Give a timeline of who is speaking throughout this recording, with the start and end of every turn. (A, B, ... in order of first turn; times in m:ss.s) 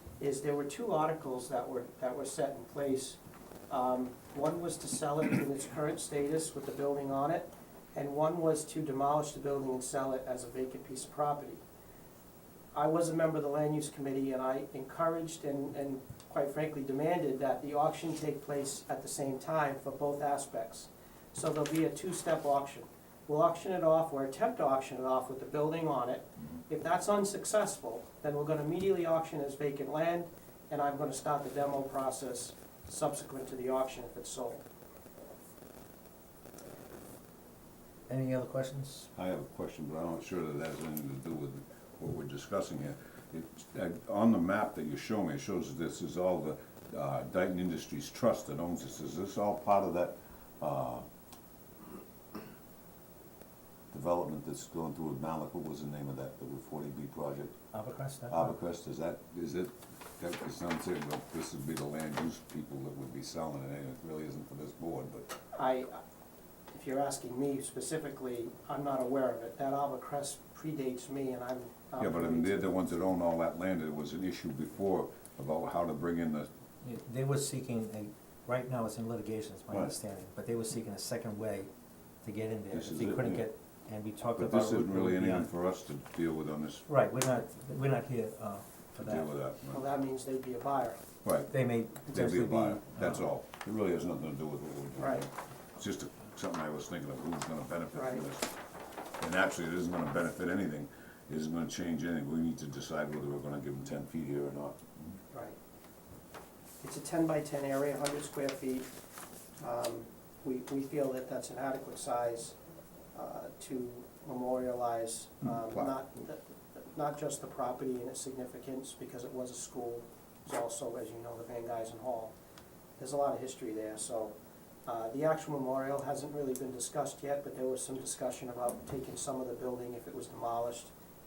0:00.2-0:11.6 A
0:12.7-0:34.6 A
0:38.1-0:39.1 B
0:39.1-0:51.0 C
0:53.9-0:57.5 C
0:57.7-0:58.6 B
0:58.3-1:05.3 C
1:05.5-1:06.0 A
1:06.7-1:12.8 A
1:12.0-1:16.5 C
1:16.8-1:21.7 B
1:22.2-1:25.5 B
1:22.7-1:23.5 C
1:24.4-1:26.9 C
1:26.9-1:29.3 B
1:29.0-1:29.8 C
1:29.7-1:31.0 A
1:31.2-1:38.5 C
1:31.5-1:33.3 B
1:35.0-1:35.3 A
1:37.9-1:38.3 A
1:39.2-1:44.9 C
1:45.3-1:45.6 A
1:46.8-1:48.9 A
1:49.6-1:52.6 A
1:53.1-2:02.3 A
1:55.4-1:55.9 C
2:03.0-2:04.4 A
2:04.9-2:10.9 A